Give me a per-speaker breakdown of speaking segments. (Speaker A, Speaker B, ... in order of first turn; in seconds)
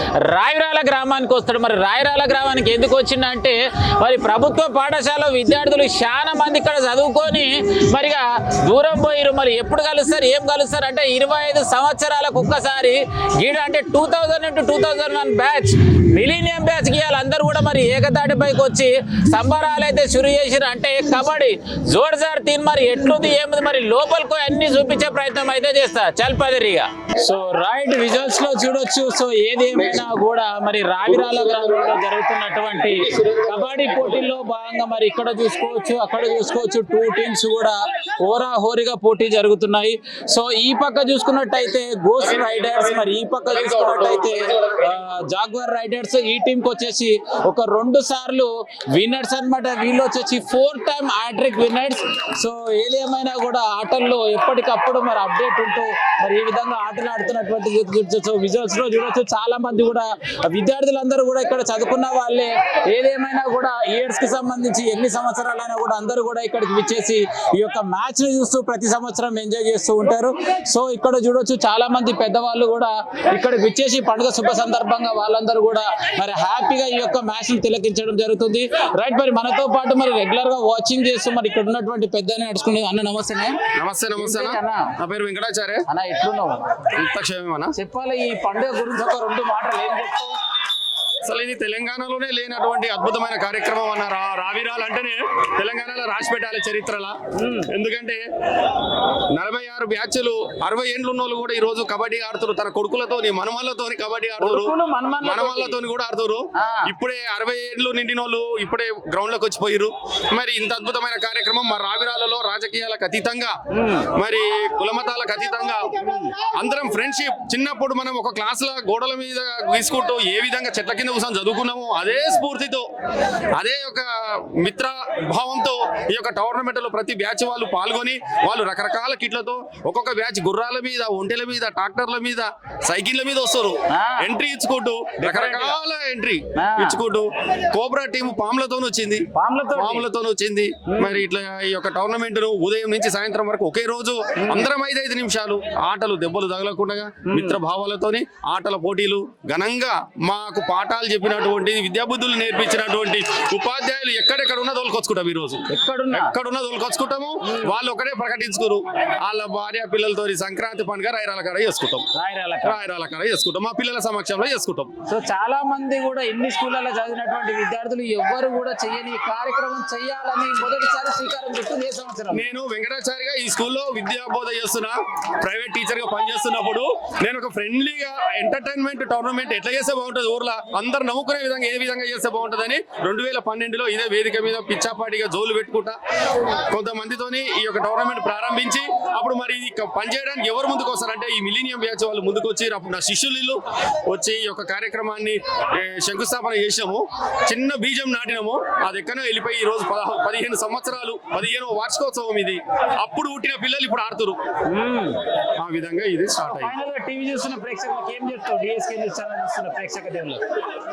Speaker A: 0.3-83.6, 84.2-84.9, 85.9-86.8, 87.8-90.4, 97.4-97.7, 104.4-105.8, 106.6-106.9, 113.7-114.1, 133.9-134.2, 135.2-135.8, 136.6-137.0, 139.3-140.1, 140.9-141.2, 147.3-147.6, 155.7-156.3, 157.5-157.7, 162.1-162.8, 165.1-172.4, 204.7-205.2, 206.5-210.4
Speaker B: 83.8-85.8, 87.0-87.7, 91.3-97.2, 97.7-98.2, 99.3-113.6, 114.2-115.9, 116.6-122.9, 123.6-139.2, 139.8-162.1, 162.6-164.9, 172.3-186.0, 186.7-204.4, 205.6-206.7